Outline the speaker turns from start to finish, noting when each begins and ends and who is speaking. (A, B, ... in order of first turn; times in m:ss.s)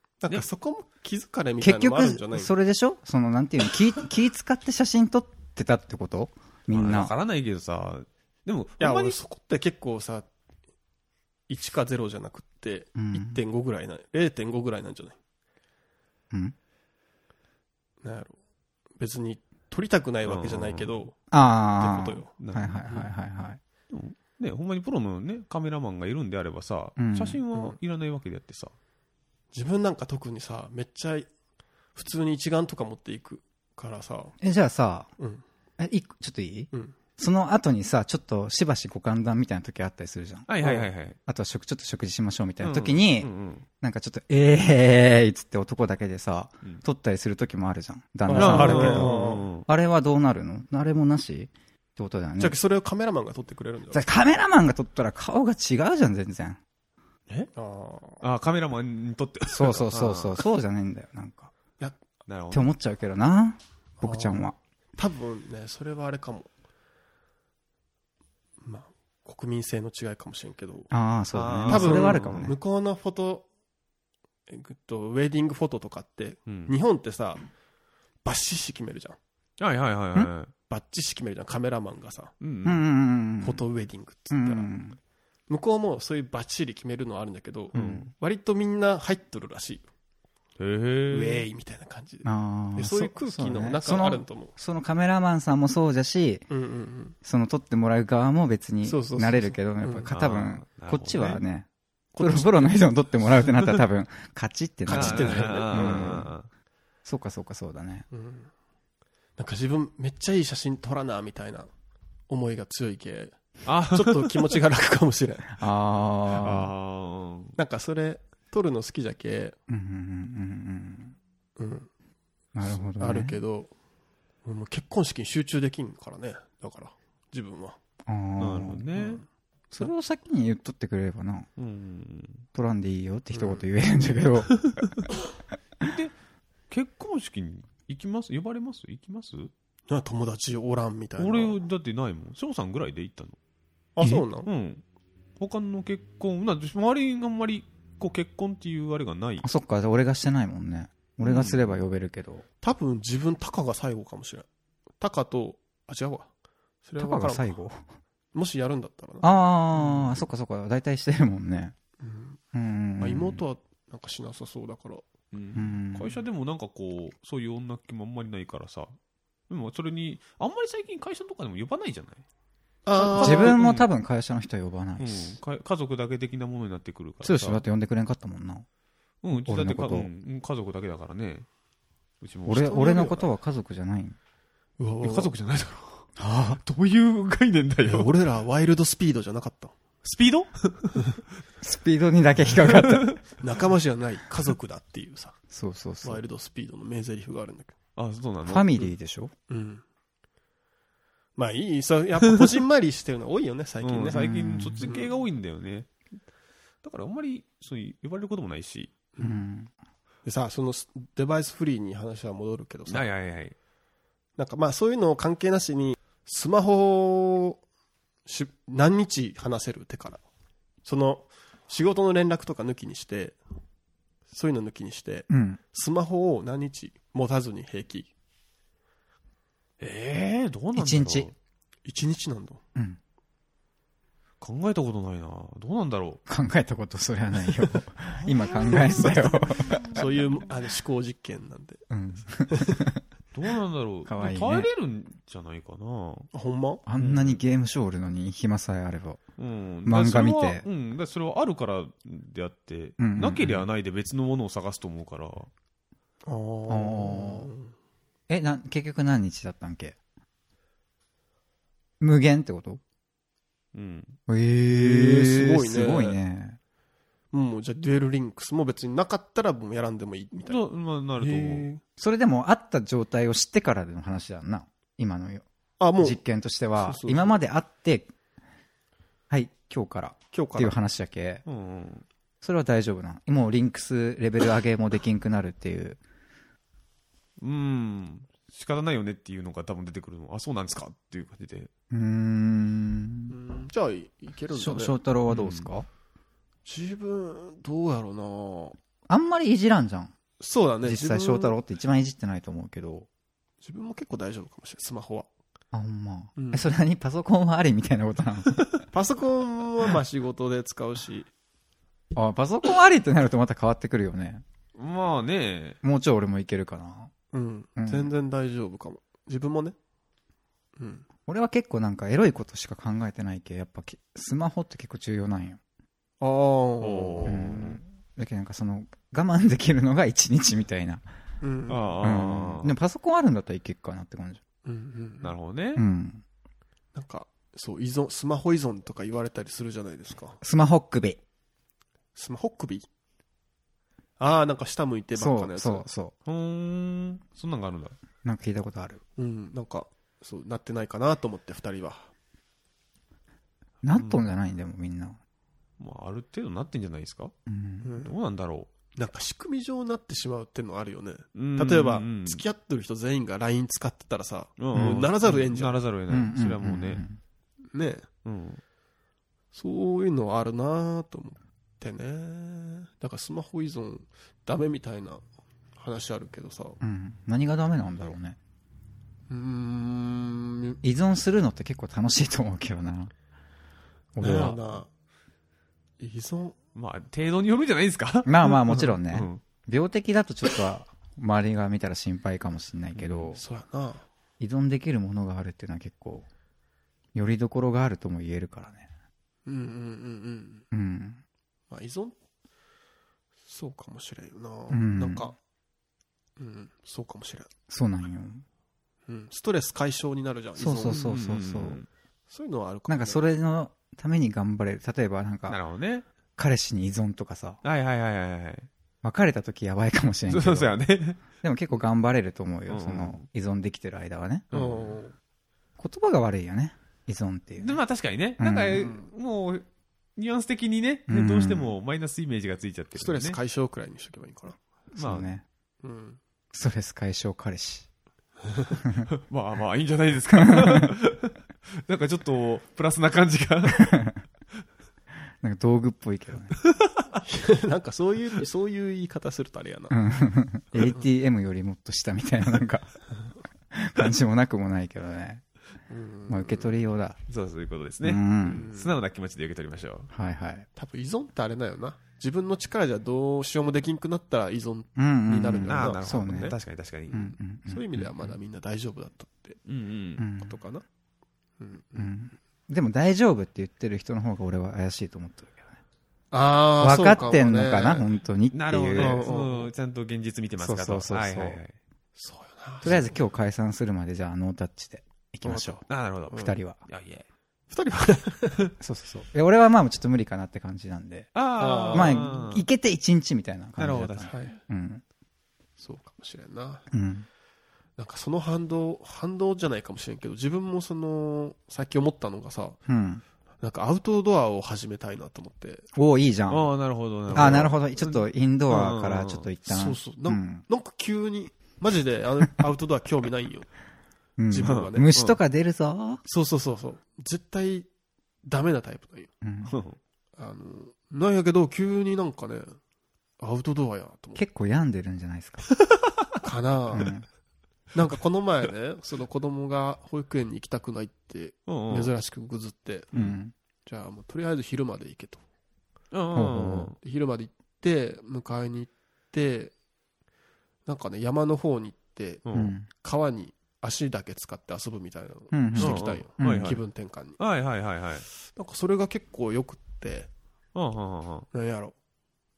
0:00.2-0:02.5 A
0:01.6-0:07.1 B
0:06.7-0:09.2 C
0:08.8-0:10.3 A
0:11.5-0:15.2 A
0:13.0-0:13.4 B
0:18.0-0:18.4 A
0:19.0-0:21.2 A
0:20.2-0:20.9 C
0:21.3-0:23.6 B
0:21.8-0:22.3 A
0:22.4-0:22.9 C
0:23.9-0:28.7 C
0:27.0-0:27.4 B
0:29.5-0:31.3 A
0:32.0-0:34.4 A
0:34.4-0:35.1 B
0:35.2-0:35.4 A
0:35.8-0:40.5 B
0:40.5-0:41.2 C
0:40.6-0:40.9 A
0:41.3-0:52.6 B
0:42.6-0:43.6 C
0:48.3-0:49.5 A
0:48.3-0:49.7 C
0:52.4-0:54.0 A
0:53.9-0:56.6 B
0:57.5-0:58.2 A
0:58.2-1:00.4 C
0:59.5-1:01.5 B
1:02.3-1:02.7 C
1:02.5-1:04.6 B
1:04.0-1:06.5 A
1:08.6-1:10.9 A
1:10.9-1:12.6 B
1:11.3-1:12.5 C
1:11.7-1:13.5 A
1:14.5-1:17.4 A
1:16.5-1:16.7 C
1:18.2-1:19.2 A
1:19.6-1:20.5 C
1:20.7-1:22.3 A
1:22.4-1:22.8 C
1:22.6-1:23.6 B
1:23.4-1:24.7 A
1:24.3-1:25.0 B
1:25.5-1:29.8 A
1:27.7-1:28.0 B
1:27.7-1:28.1 C
1:30.6-1:31.4 C
1:31.1-1:34.5 A
1:32.2-1:36.5 B
1:36.5-1:37.2 A
1:37.2-1:41.7 B
1:38.8-1:40.1 A
1:40.1-1:41.4 C
1:42.1-1:42.7 A
1:42.2-1:46.3 B
1:44.9-1:46.3 A
1:44.9-1:46.5 C
1:47.0-1:48.0 B
1:48.1-1:48.5 A
1:49.4-1:51.7 A
1:52.3-1:55.6 A
1:53.7-1:54.5 C
1:55.6-1:56.7 B
1:56.3-1:57.6 C
1:57.6-1:59.6 A
1:59.7-2:01.2 B
2:01.6-2:01.9 A
2:02.5-2:03.4 B
2:02.7-2:03.7 A
2:04.4-2:07.8 A
2:08.1-2:08.9 B
2:08.4-2:09.2 C
2:09.0-2:09.2 A
2:09.7-2:11.5 B
2:11.6-2:12.4 C
2:12.5-2:14.9 B
2:13.3-2:13.6 A
2:15.8-2:16.1 C
2:16.7-2:19.5 C
2:19.9-2:21.6 A
2:21.2-2:23.4 C
2:24.0-2:24.5 A
2:24.4-2:24.8 C
2:25.4-2:29.4 C
2:29.4-2:32.4 B
2:31.2-2:31.8 C
2:32.6-2:34.5 A
2:35.0-2:36.3 A
2:36.8-2:37.6 A
2:37.0-2:37.8 B
2:38.3-2:39.4 A
2:39.2-2:41.8 B
2:42.0-2:42.4 A
2:42.5-2:43.4 B
2:43.0-2:45.1 A
2:45.3-2:48.9 C
2:45.6-2:46.2 B
2:49.5-2:52.2 C
2:52.9-2:53.6 A
2:53.0-2:53.9 C
2:53.2-2:55.4 B
2:55.0-2:57.6 C
2:57.2-2:58.7 B
2:59.2-3:01.5 C
2:59.4-3:00.1 B
3:02.2-3:02.9 C
3:02.5-3:04.2 B
3:02.6-3:03.3 A
3:04.8-3:05.3 A
3:05.0-3:06.1 C
3:06.2-3:06.6 B
3:06.6-3:08.1 C
3:07.8-3:09.7 A
3:10.0-3:11.0 C
3:11.6-3:13.2 B
3:12.5-3:13.2 C
3:13.4-3:15.4 A
3:15.5-3:16.2 B
3:16.0-3:17.8 A
3:18.0-3:18.9 C
3:18.4-3:19.3 B
3:19.5-3:19.8 A
3:21.4-3:24.2 A
3:23.8-3:25.9 C
3:24.1-3:24.9 B
3:24.8-3:25.1 A
3:26.8-3:28.9 C
3:29.2-3:29.7 B
3:30.2-3:33.1 A
3:32.9-3:33.6 C
3:34.4-3:37.6 A
3:38.3-3:40.2 A
3:40.8-3:43.4 A
3:44.3-3:48.1 A
3:45.3-3:45.6 B
3:49.8-3:51.3 C
3:50.8-3:51.3 B
3:51.8-3:52.6 A
3:54.4-3:56.2 C
3:56.3-4:00.0 B
3:58.6-3:59.2 C
3:58.7-3:59.3 A
3:59.9-4:01.8 A
4:01.9-4:03.0 B
4:02.5-4:02.8 A
4:03.3-4:06.3 C
4:04.1-4:04.7 B
4:06.3-4:06.8 A
4:06.9-4:09.2 B
4:07.0-4:07.4 C
4:09.4-4:15.5 C
4:09.9-4:10.6 B
4:13.0-4:13.7 B
4:16.2-4:17.7 A
4:16.7-4:17.5 B
4:18.3-4:20.0 B
4:22.0-4:22.8 B
4:23.7-4:24.2 C
4:24.3-4:26.6 B
4:24.7-4:26.2 A
4:27.3-4:30.6 A
4:30.5-4:31.7 C
4:31.2-4:31.8 A
4:32.0-4:35.4 B
4:35.8-4:36.2 A
4:36.0-4:38.1 B
4:36.8-4:37.4 A
4:39.3-4:41.4 B
4:40.3-4:40.8 A
4:41.5-4:42.0 C
4:42.4-4:46.0 B
4:47.4-4:51.7 C
4:51.9-4:53.4 B
4:53.3-4:55.0 A
4:54.5-4:55.9 B
4:55.3-4:55.7 C
4:56.6-4:58.8 A
4:59.1-5:00.1 B
5:00.4-5:01.6 A
5:00.8-5:03.1 B
5:03.6-5:05.3 A
5:05.7-5:08.8 B
5:06.4-5:06.7 A
5:08.9-5:11.3 A
5:12.1-5:14.4 B
5:14.8-5:15.8 C
5:15.8-5:17.1 B
5:17.3-5:19.8 A
5:17.8-5:18.1 B
5:20.8-5:21.0 A
5:21.3-5:25.6 B
5:26.2-5:27.4 A
5:26.8-5:27.8 C
5:27.2-5:31.0 B
5:31.4-5:32.0 A
5:31.7-5:32.8 C
5:32.0-5:34.4 B
5:34.6-5:35.4 A
5:35.2-5:35.8 C
5:35.8-5:36.2 B
5:37.0-5:40.4 A
5:40.4-5:41.2 B
5:42.2-5:42.9 A
5:44.2-5:45.8 A
5:45.2-5:46.1 B
5:46.3-5:48.0 C
5:48.2-5:49.0 B
5:49.2-5:52.1 A
5:53.8-5:55.2 B
5:53.9-5:54.2 C
5:55.8-5:57.3 C
5:57.5-5:57.9 B
5:57.8-5:58.1 A
5:58.0-5:58.7 C
5:58.9-6:05.8 A
6:01.4-6:02.4 C
6:04.6-6:07.0 C
6:04.8-6:05.0 B
6:06.1-6:07.2 B
6:07.7-6:08.1 A
6:08.2-6:08.6 C
6:09.5-6:15.2 A
6:15.8-6:16.8 A
6:16.8-6:18.4 B
6:19.3-6:20.8 A
6:20.8-6:23.1 B
6:24.2-6:24.6 B
6:24.2-6:24.9 A
6:24.2-6:24.6 C
6:26.0-6:26.6 A
6:26.8-6:29.4 C
6:28.2-6:33.4 B
6:33.0-6:33.3 C
6:33.4-6:34.0 A
6:34.4-6:36.3 B
6:37.1-6:38.9 B
6:39.5-6:40.6 A
6:40.7-6:41.2 B
6:41.7-6:42.2 A
6:43.5-6:45.4 A
6:44.7-6:45.3 B
6:46.4-6:47.5 A
6:47.7-6:48.4 B
6:49.1-6:51.1 A
6:50.6-6:51.8 B
6:50.9-6:51.9 C
6:52.3-6:53.2 A
6:52.9-6:55.6 B
6:55.5-6:56.0 C
6:56.4-6:57.6 B
6:57.6-6:58.7 C
6:59.0-7:00.8 B
7:00.3-7:01.2 C
7:01.4-7:04.5 B
7:02.7-7:03.2 C
7:04.5-7:04.9 C
7:04.5-7:05.1 A
7:05.8-7:07.8 B
7:07.6-7:09.6 C
7:08.4-7:09.0 B
7:10.2-7:13.4 C
7:11.1-7:11.7 B
7:13.0-7:14.6 A
7:14.9-7:15.4 B
7:15.0-7:15.3 C
7:15.8-7:16.2 A
7:16.5-7:17.9 B
7:19.3-7:24.1 C
7:20.3-7:20.9 B
7:23.8-7:24.2 B
7:25.4-7:26.6 B
7:27.2-7:30.0 A
7:29.9-7:33.0 B
7:33.7-7:35.4 B
7:35.9-7:36.7 A
7:36.3-7:37.2 B
7:37.3-7:40.1 C
7:38.0-7:38.7 B
7:38.5-7:38.9 A
7:40.1-7:40.7 B
7:40.8-7:46.5 A
7:45.0-7:46.6 B
7:45.7-7:47.3 C
7:47.1-7:48.3 B
7:47.7-7:49.6 A
7:49.7-7:50.2 C
7:50.2-7:50.6 B
7:50.4-7:50.8 A
7:51.6-7:52.1 A
7:52.0-7:55.7 B
7:56.3-7:58.1 A
7:56.8-7:59.3 B
7:58.5-8:01.7 C
7:59.0-7:59.7 A
8:00.6-8:01.6 B
8:02.2-8:03.2 A
8:02.8-8:06.8 B
8:05.5-8:06.6 A
8:05.9-8:07.3 C
8:07.7-8:08.7 A
8:08.8-8:11.3 B
8:11.4-8:12.7 C
8:11.6-8:12.4 A
8:11.9-8:15.0 B
8:13.8-8:14.3 C
8:14.3-8:14.6 A
8:15.8-8:16.9 A
8:16.9-8:17.3 B
8:18.0-8:22.8 A
8:22.9-8:23.2 B
8:23.6-8:25.9 A
8:26.0-8:26.7 B
8:26.5-8:27.8 C
8:27.3-8:28.2 A
8:27.3-8:30.6 B
8:28.7-8:29.5 C
8:29.7-8:33.7 A
8:34.4-8:36.2 B
8:34.5-8:35.1 A
8:34.6-8:35.4 C
8:36.2-8:37.9 A
8:38.4-8:39.3 A
8:39.4-8:39.8 B
8:39.7-8:40.0 C
8:40.4-8:42.8 A
8:43.4-8:44.4 A
8:44.4-8:45.7 B
8:46.4-8:47.2 A
8:46.9-8:47.3 B
8:47.9-8:53.1 A
8:51.7-8:52.1 C
8:53.1-8:53.5 B
8:53.9-8:55.4 A
8:56.1-8:57.0 C
8:56.3-8:56.9 B
8:57.0-8:59.7 A
9:00.9-9:07.4 A
9:02.4-9:02.8 C
9:02.5-9:02.9 B
9:05.5-9:06.8 B
9:05.8-9:06.8 C
9:07.4-9:08.3 C
9:08.5-9:10.3 A
9:10.8-9:11.5 C
9:11.5-9:12.0 A